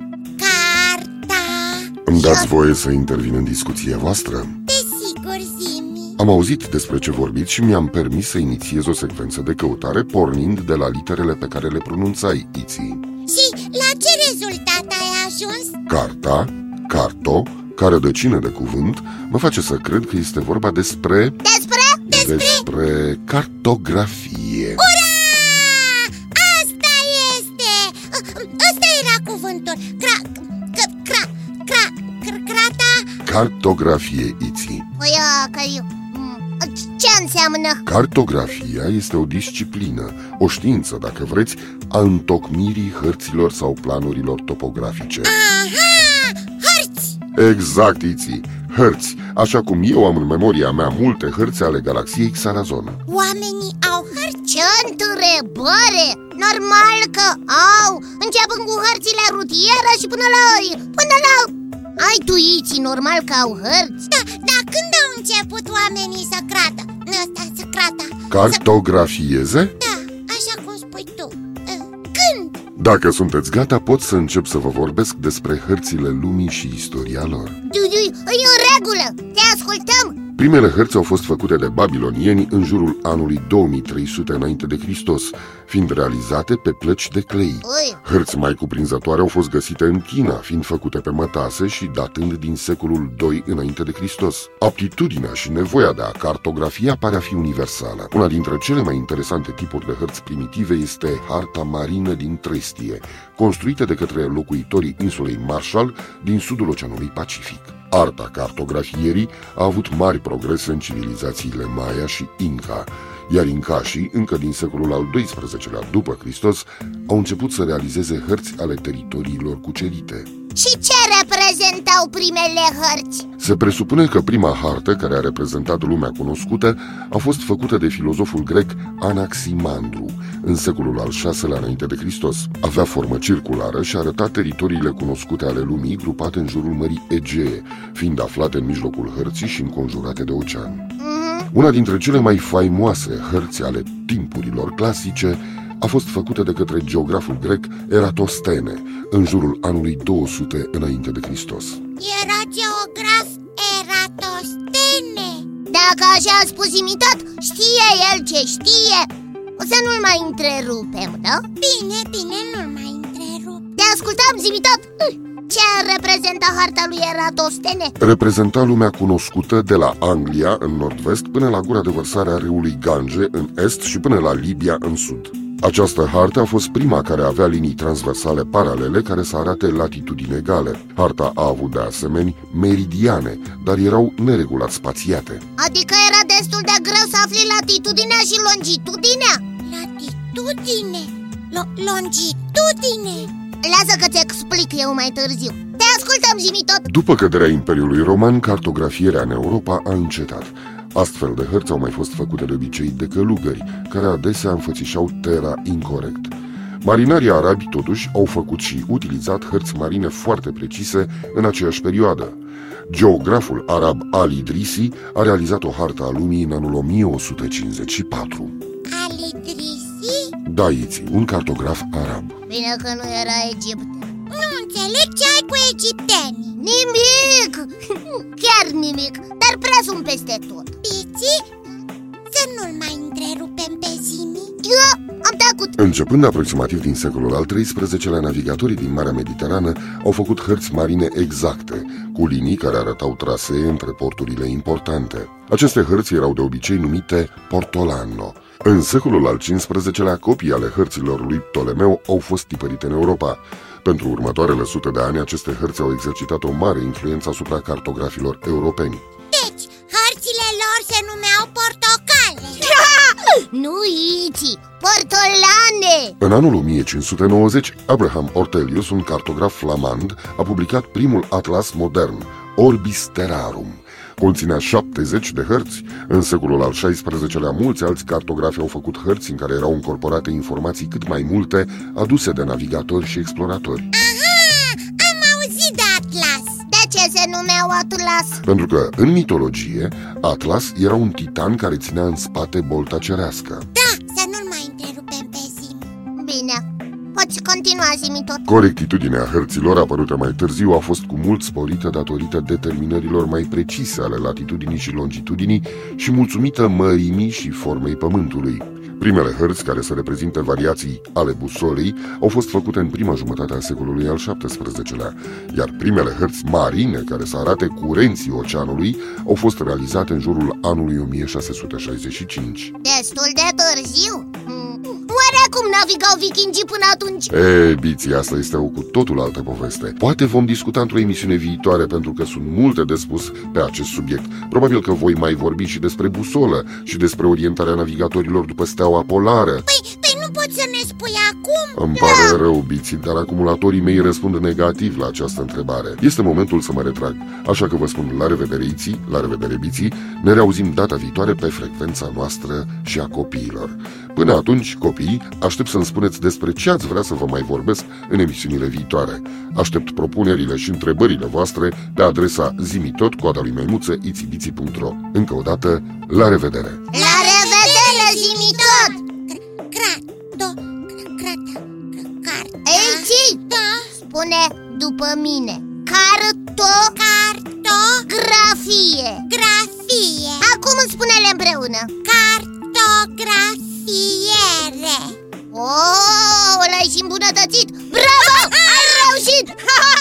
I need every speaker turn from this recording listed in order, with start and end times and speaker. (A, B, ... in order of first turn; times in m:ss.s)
0:00.4-0:01.9 A
0:02.1-0:04.6 B
0:02.1-0:02.5 C
0:04.7-0:06.2 A
0:06.2-0:13.0 B
0:13.3-0:15.7 A
0:15.9-0:21.4 B
0:21.4-0:22.1 C
0:22.1-0:22.6 A
0:22.1-0:24.8 B
0:24.8-0:33.1 A
0:33.2-0:34.9 B
0:35.0-0:37.8 C
0:37.8-0:45.3 B
0:45.2-0:47.2 A
0:47.4-0:53.0 B
0:53.1-0:54.6 A
0:54.5-1:04.1 C
1:04.1-1:08.6 A
1:08.3-1:09.8 B
1:09.8-1:12.6 A
1:12.8-1:17.6 B
1:17.6-1:20.2 C
1:20.4-2:00.3 B
1:27.6-1:28.0 C
2:00.6-2:03.3 C
2:03.4-2:20.9 B
2:21.0-2:21.5 C
2:21.5-2:31.8 B
2:32.0-2:35.5 A
2:35.7-2:41.4 C
2:41.6-2:43.6 A
2:43.8-2:48.0 C
2:48.0-3:05.4 B
3:05.6-3:09.4 C
3:09.6-3:13.3 A
3:13.6-3:16.9 C
3:16.8-3:38.6 B
3:38.9-3:40.4 A
3:40.4-3:42.4 B
3:42.5-3:44.1 C
3:44.3-3:46.6 A
3:46.6-3:50.7 C
3:50.8-3:51.5 A
3:52.3-3:54.5 A
3:54.6-3:55.8 C
3:55.8-4:19.0 B
4:19.3-4:22.7 A
4:22.6-4:26.2 C
4:26.2-4:43.9 B
4:43.9-4:46.6 A
4:46.7-4:48.4 C
4:48.4-4:53.7 B
4:53.7-4:55.9 A
4:56.2-4:58.5 C
4:58.5-5:22.7 B
5:22.8-5:27.3 C
5:27.3-5:39.7 B
5:39.7-5:42.4 A
5:41.8-6:06.9 B
6:06.9-6:09.0 C
6:06.9-6:13.9 A
6:12.6-6:13.4 C
6:14.0-6:17.0 C
6:17.0-6:18.1 A
6:18.1-6:19.3 C
6:19.3-6:20.5 A
6:20.4-6:21.9 C
6:22.0-6:25.2 A
6:25.5-6:29.8 C
6:28.2-6:29.2 A